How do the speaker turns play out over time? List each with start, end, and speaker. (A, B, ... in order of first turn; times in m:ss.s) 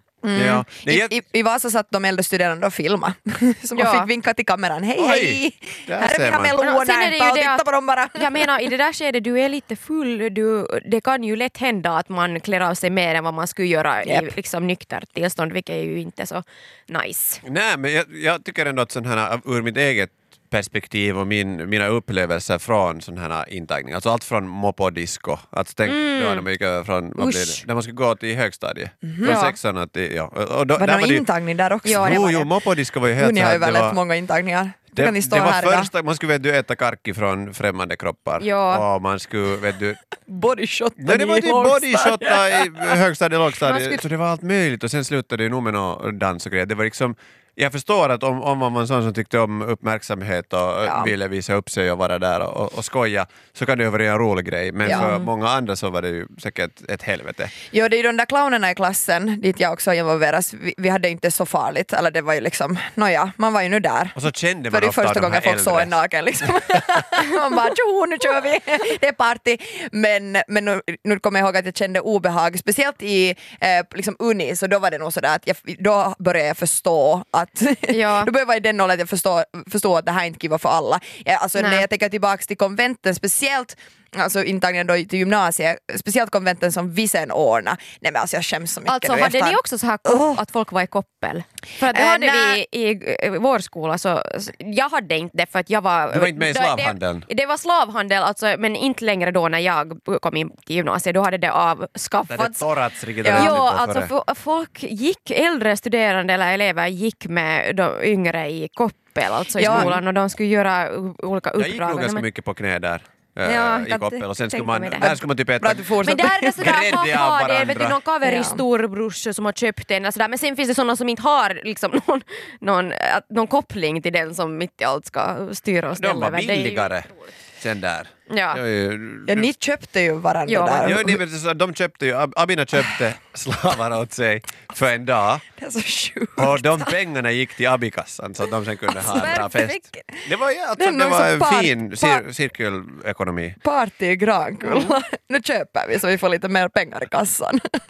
0:00.2-0:08.5 A
0:00.3-0:01.2 B
0:03.7-0:04.1 C
0:05.0-0:06.6 B
0:06.6-0:17.4 C
0:14.0-0:14.3 A
0:17.4-0:31.3 B
0:25.8-0:26.4 C
0:27.2-0:27.6 A
0:29.0-0:29.4 A
0:29.2-0:29.6 C
0:30.8-0:32.3 A
0:31.8-0:34.0 B
0:31.8-0:32.5 C
0:33.2-0:35.9 A
0:34.9-0:40.0 B
0:38.4-0:38.8 C
0:40.3-0:42.9 A
0:41.0-0:57.5 B
0:43.6-0:44.0 C
0:50.8-0:51.1 A
0:54.8-0:55.2 A
0:54.9-0:55.2 C
0:57.7-1:30.4 A
1:04.1-1:06.0 B
1:17.9-1:18.3 C
1:21.6-1:21.9 C
1:28.8-1:42.7 C
1:31.8-1:32.6 A
1:36.1-1:37.2 B
1:42.3-1:44.1 B
1:43.2-1:43.6 A
1:43.2-1:52.2 C
1:49.6-1:50.0 A
1:49.6-1:50.0 B
1:51.6-1:55.9 B
1:53.4-1:55.1 C
1:55.0-1:56.8 A
1:56.0-2:07.3 C
1:56.6-1:58.0 B
1:58.2-1:58.6 A
2:05.9-2:07.1 B
2:07.6-2:09.5 B
2:08.3-2:08.6 C
2:09.3-2:11.2 A
2:10.4-2:11.0 C
2:10.8-2:15.4 B
2:15.6-2:16.9 A
2:16.4-2:23.6 B
2:18.9-2:20.2 A
2:20.8-2:22.2 A
2:23.6-2:27.6 A
2:24.6-2:24.9 B